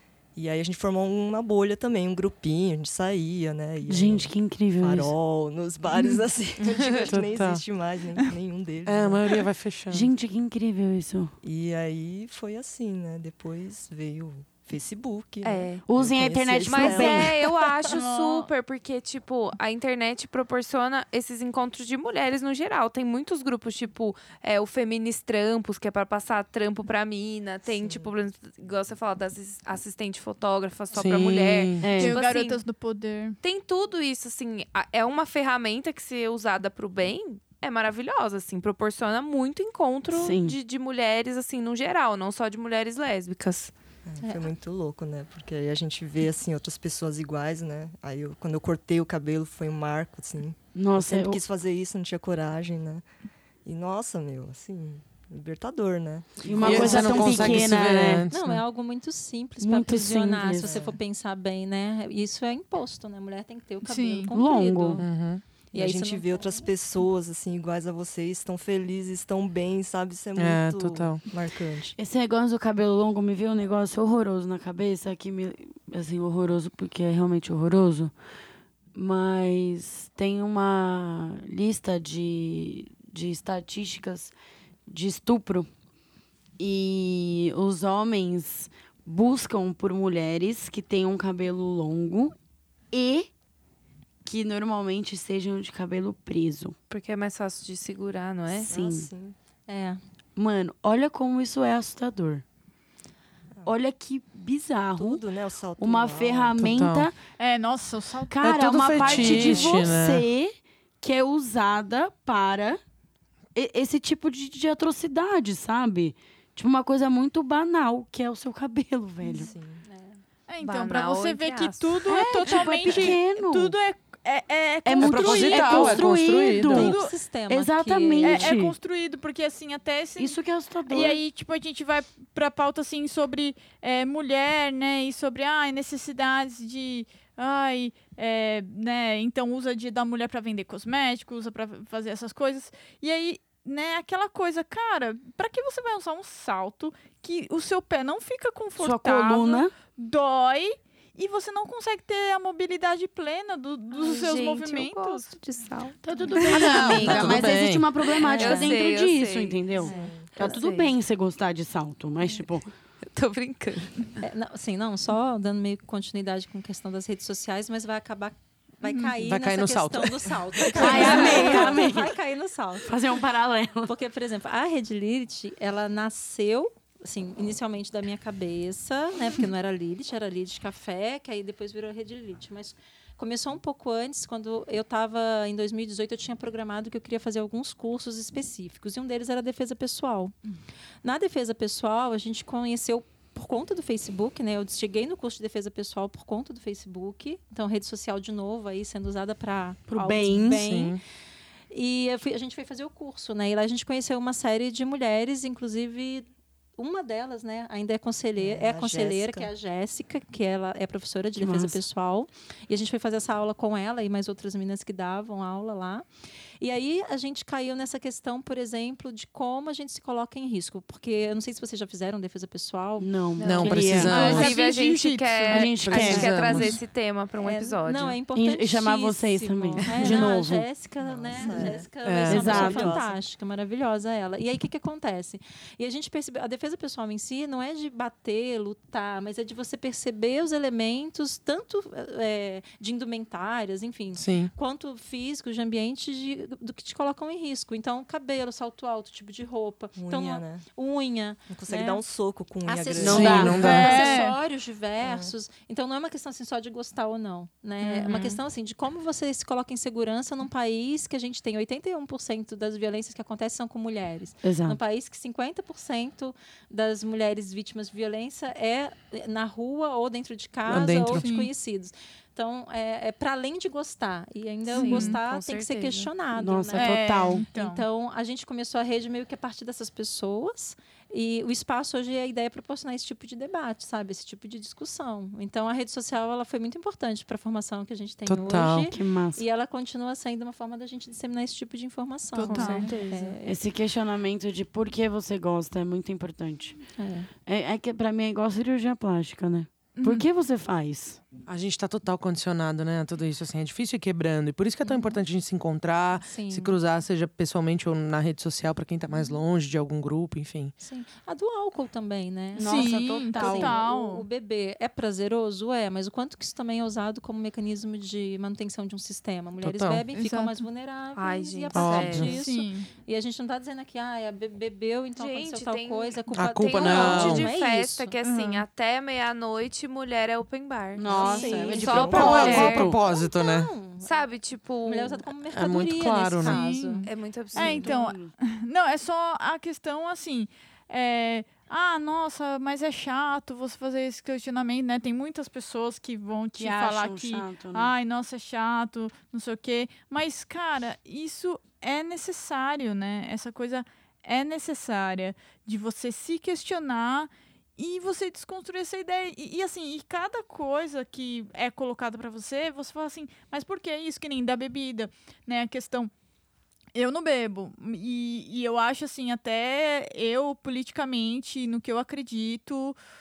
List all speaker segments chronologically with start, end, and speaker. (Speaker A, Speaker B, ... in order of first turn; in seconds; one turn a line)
Speaker A: 0.3-9.4
Speaker B: 3.9-5.1
Speaker C: 6.6-7.1
Speaker D: 7.1-7.6
Speaker D: 8.8-10.1
Speaker B: 9.9-11.3
Speaker A: 11.4-17.8
Speaker C: 15.4-15.8
Speaker B: 15.8-18.1
Speaker C: 16.6-32.6
Speaker E: 17.9-18.4
Speaker A: 27.6-28.1
Speaker D: 30.9-32.0
Speaker B: 31.8-32.2
Speaker E: 32.0-33.4
Speaker C: 33.4-43.7
Speaker B: 40.1-40.6
Speaker A: 44.0-53.0
Speaker F: 44.2-44.5
Speaker B: 50.7-51.4
Speaker A: 53.6-57.8
Speaker B: 56.4-58.3
Speaker D: 56.6-58.6
Speaker F: 58.3-65.0
Speaker B: 59.6-60.7
Speaker A: 60.6-61.0
Speaker E: 63.8-64.3
Speaker B: 64.3-65.0
Speaker D: 65.0-65.4
Speaker F: 65.7-66.7
Speaker A: 65.7-72.0
Speaker D: 70.3-71.2
Speaker B: 72.0-78.1
Speaker B: 78.9-84.3
Speaker B: 84.9-85.7
Speaker B: 86.6-92.3
Speaker B: 92.9-93.3
Speaker B: 94.2-96.8
Speaker C: 96.9-98.7
Speaker B: 98.7-99.1
Speaker A: 98.7-99.3
Speaker F: 99.7-100.0
Speaker B: 100.3-102.4
Speaker B: 103.6-105.2
Speaker A: 104.9-106.6
Speaker B: 105.8-107.2
Speaker D: 106.6-107.1
Speaker E: 107.4-108.5
Speaker B: 108.3-112.8
Speaker D: 108.4-110.3
Speaker A: 109.0-109.7
Speaker E: 109.1-109.4
Speaker B: 113.5-119.5
Speaker A: 119.3-119.8
Speaker F: 119.8-120.2
Speaker E: 120.5-127.1
Speaker C: 120.6-122.1
Speaker B: 122.1-123.7
Speaker B: 124.8-126.9
Speaker D: 125.0-126.9
Speaker F: 126.6-128.5
Speaker B: 127.5-128.7
Speaker E: 128.2-155.2
Speaker B: 130.2-131.2
Speaker B: 148.8-149.7
Speaker C: 153.9-160.9
Speaker B: 156.0-162.7
Speaker D: 156.5-157.9
Speaker E: 158.2-158.7
Speaker F: 159.8-160.1
Speaker A: 159.8-160.3
Speaker C: 163.1-164.1
Speaker F: 164.2-172.9
Speaker E: 168.8-169.2
Speaker D: 169.2-171.0
Speaker B: 170.7-172.1
Speaker C: 170.9-171.6
Speaker B: 172.8-173.9
Speaker F: 173.8-190.3
Speaker F: 191.0-201.0
Speaker B: 199.9-200.6
Speaker D: 200.5-201.0
Speaker F: 201.7-216.1
Speaker A: 208.4-209.5
Speaker B: 211.4-211.8
Speaker F: 216.6-223.1
Speaker B: 223.0-224.6
Speaker C: 223.4-228.2
Speaker D: 223.4-224.5
Speaker E: 224.1-226.1
Speaker B: 225.5-226.7
Speaker D: 225.9-226.8
Speaker F: 227.4-252.0
Speaker B: 228.3-230.7
Speaker A: 231.0-233.2
Speaker D: 232.0-232.7
Speaker B: 232.3-233.0
Speaker D: 244.2-244.5
Speaker A: 249.9-250.6
Speaker A: 251.5-254.1
Speaker F: 252.6-293.6
Speaker B: 253.0-253.9
Speaker D: 253.0-254.0
Speaker E: 253.6-254.4
Speaker A: 255.0-255.3
Speaker C: 257.9-258.4
Speaker B: 264.4-264.8
Speaker D: 270.6-271.2
Speaker E: 271.2-271.5
Speaker E: 274.7-275.2
Speaker C: 274.7-276.1
Speaker B: 276.3-277.4
Speaker E: 276.7-277.8
Speaker D: 288.2-288.9
Speaker B: 288.9-289.4
Speaker E: 292.3-293.1
Speaker C: 292.4-293.3
Speaker B: 293.4-296.8
Speaker F: 296.9-297.3
Speaker B: 297.4-301.2
Speaker E: 299.9-300.3
Speaker D: 301.4-310.7
Speaker F: 304.9-305.1
Speaker F: 306.2-306.8
Speaker F: 310.8-328.1
Speaker B: 312.6-313.8
Speaker E: 312.6-314.2
Speaker D: 319.6-320.0
Speaker E: 320.1-320.6
Speaker C: 321.1-322.4
Speaker D: 321.7-322.3
Speaker E: 322.2-322.9
Speaker C: 325.1-332.9
Speaker D: 326.3-327.5
Speaker E: 328.2-328.6
Speaker B: 330.9-333.0
Speaker F: 331.0-334.3
Speaker A: 331.6-332.2
Speaker D: 332.1-333.7
Speaker C: 334.0-335.2
Speaker F: 334.8-337.1
Speaker D: 335.5-336.6
Speaker E: 336.4-366.1
Speaker C: 337.0-338.0
Speaker B: 337.5-338.3
Speaker B: 346.6-347.9
Speaker E: 366.9-373.0